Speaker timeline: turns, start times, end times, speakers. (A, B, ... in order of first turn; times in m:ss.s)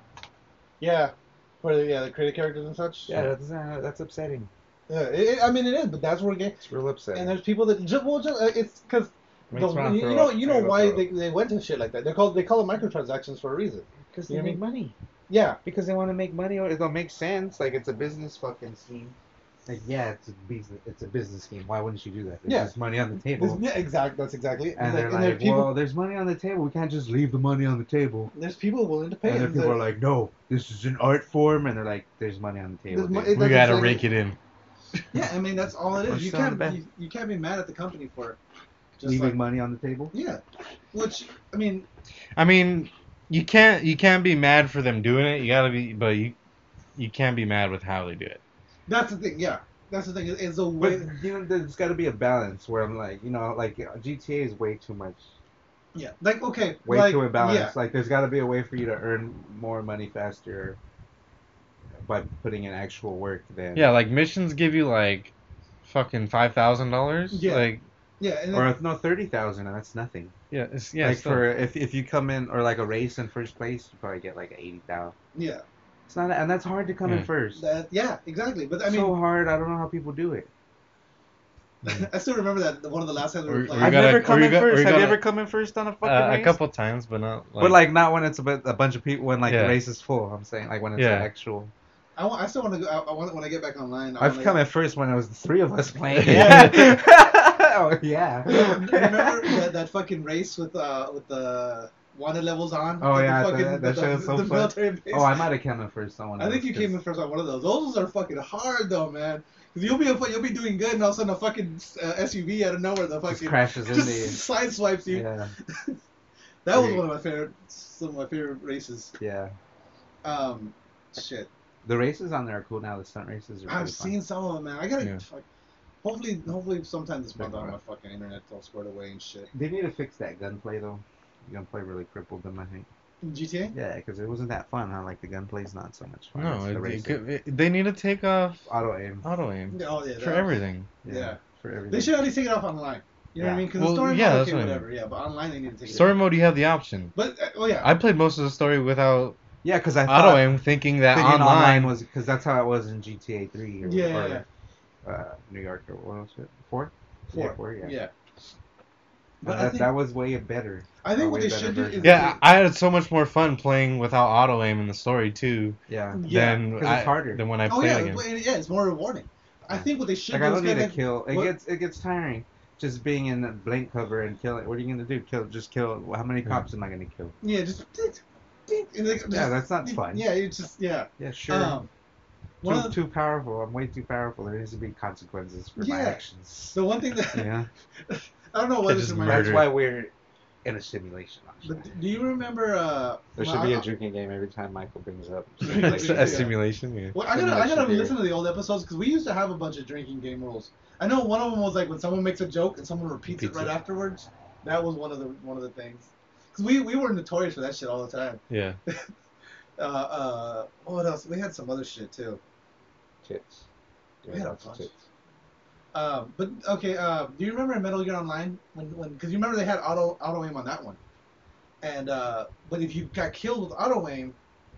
0:00.8-0:03.2 A
0:03.1-0:04.5 B
0:04.9-0:06.6 A
0:06.6-0:07.4 B
0:07.1-0:14.6 A
0:09.5-0:11.1 B
0:14.1-0:14.9 B
0:15.3-0:15.6 A
0:15.6-0:23.6 B
0:22.4-0:22.7 A
0:23.3-0:25.8 A
0:24.8-0:28.3 B
0:28.3-0:29.8 A
0:29.2-0:33.4 B
0:32.9-0:34.0 A
0:33.3-0:34.4 C
0:35.1-0:38.4 A
0:36.1-0:36.8 B
0:39.0-0:39.4 A
0:39.0-0:40.1 B
0:40.1-0:40.4 A
0:40.9-0:41.9 A
0:42.4-0:46.3 C
0:47.0-0:48.4 C
0:48.9-0:51.2 A
0:50.8-0:55.3 B
0:55.9-0:57.7 A
0:56.8-1:00.8 B
1:02.0-1:03.9 B
1:03.7-1:05.3 C
1:05.8-1:07.8 C
1:07.3-1:08.7 A
1:08.5-1:10.3 B
1:10.5-1:11.4 C
1:11.0-1:15.1 B
1:15.3-1:15.6 A
1:16.1-1:17.6 B
1:17.5-1:19.2 A
1:18.8-1:20.5 B
1:21.8-1:24.3 A
1:23.5-1:25.2 C
1:23.7-1:26.6 B
1:26.0-1:27.8 C
1:27.6-1:31.7 B
1:29.5-1:29.8 C
1:31.0-1:31.3 C
1:32.2-1:34.6 A
1:34.2-1:39.6 B
1:36.1-1:37.0 C
1:36.3-1:36.8 A
1:38.4-1:45.4 A
1:43.0-1:47.0 B
1:46.4-1:56.0 A
1:53.3-1:54.4 B
1:55.1-1:55.5 B
1:56.6-1:59.1 A
1:56.7-1:57.1 B
1:59.2-1:59.6 B
2:00.2-2:01.5 A
2:01.8-2:04.2 B
2:03.7-2:05.4 A
2:06.0-2:09.5 A
2:07.4-2:07.7 B
2:09.5-2:12.9 B
2:13.2-2:13.7 A
2:13.7-2:17.2 B
2:16.3-2:18.7 C
2:18.7-2:19.2 B
2:19.2-2:20.9 C
2:19.7-2:20.5 A
2:21.0-2:22.2 B
2:21.0-2:21.4 A
2:21.9-2:26.2 A
2:23.4-2:23.7 B
2:23.7-2:24.9 C
2:25.9-2:27.1 C
2:27.1-2:27.9 A
2:27.8-2:29.4 C
2:29.6-2:34.4 B
2:30.0-2:31.9 C
2:33.8-2:34.4 A
2:35.0-2:38.0 B
2:37.3-2:38.1 A
2:39.4-2:39.9 A
2:39.4-2:42.3 B
2:41.0-2:42.4 A
2:42.0-2:48.2 C
2:45.9-2:47.4 B
2:46.1-2:46.6 A
2:47.6-2:51.5 A
2:49.7-2:57.4 B
2:57.4-3:01.9 A
2:59.3-3:00.3 B
3:01.2-3:01.8 B
3:02.6-3:03.0 A
3:02.6-3:07.7 B
3:05.8-3:07.5 A
3:08.1-3:09.6 A
3:08.8-3:09.7 C
3:09.2-3:10.1 B
3:10.6-3:11.9 B
3:11.6-3:13.8 A
3:13.4-3:16.6 B
3:15.6-3:16.6 A
3:15.7-3:17.2 C
3:17.1-3:29.0 A
3:17.2-3:18.2 B
3:23.4-3:23.7 C
3:28.5-3:28.8 C
3:29.8-3:32.4 A
3:33.2-3:33.6 B
3:34.2-3:34.9 B
3:34.3-3:34.9 A
3:35.9-3:41.0 A
3:41.8-3:44.4 A